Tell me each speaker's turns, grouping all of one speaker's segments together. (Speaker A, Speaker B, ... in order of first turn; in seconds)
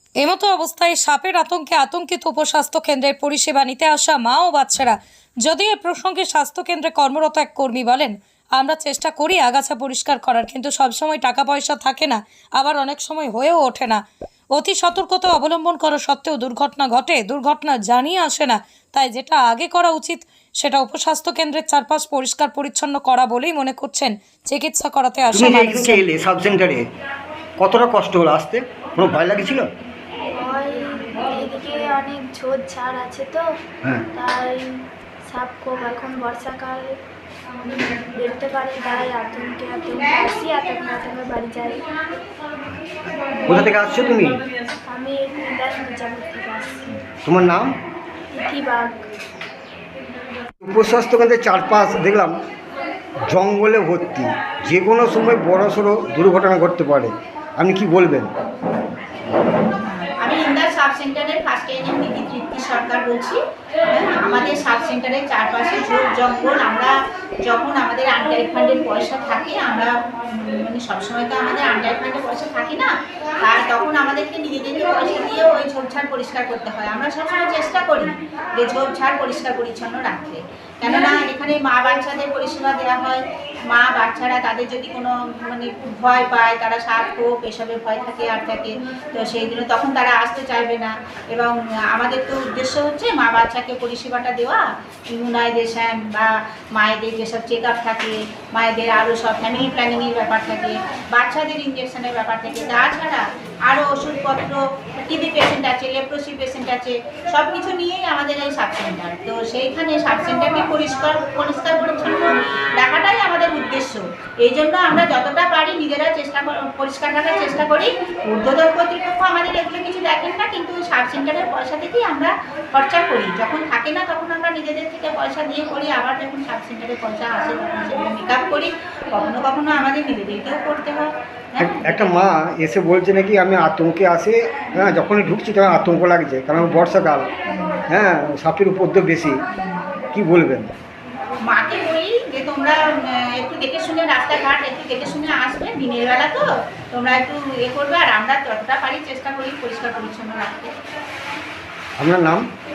Speaker A: 0.2-14.0, 14.5-26.0
Speaker B: 25.3-26.8, 27.6-29.7, 43.5-44.4, 47.2-47.7, 50.6-52.4, 53.3-58.3, 131.6-137.3, 137.9-139.3, 140.1-140.7, 152.0-152.4
Speaker C: 30.3-33.4, 34.1-34.6, 35.3-36.9, 37.8-41.9, 44.9-47.0, 48.3-49.0
Speaker D: 59.8-72.9, 73.4-132.2, 137.5-137.8, 139.6-139.8, 141.5-150.7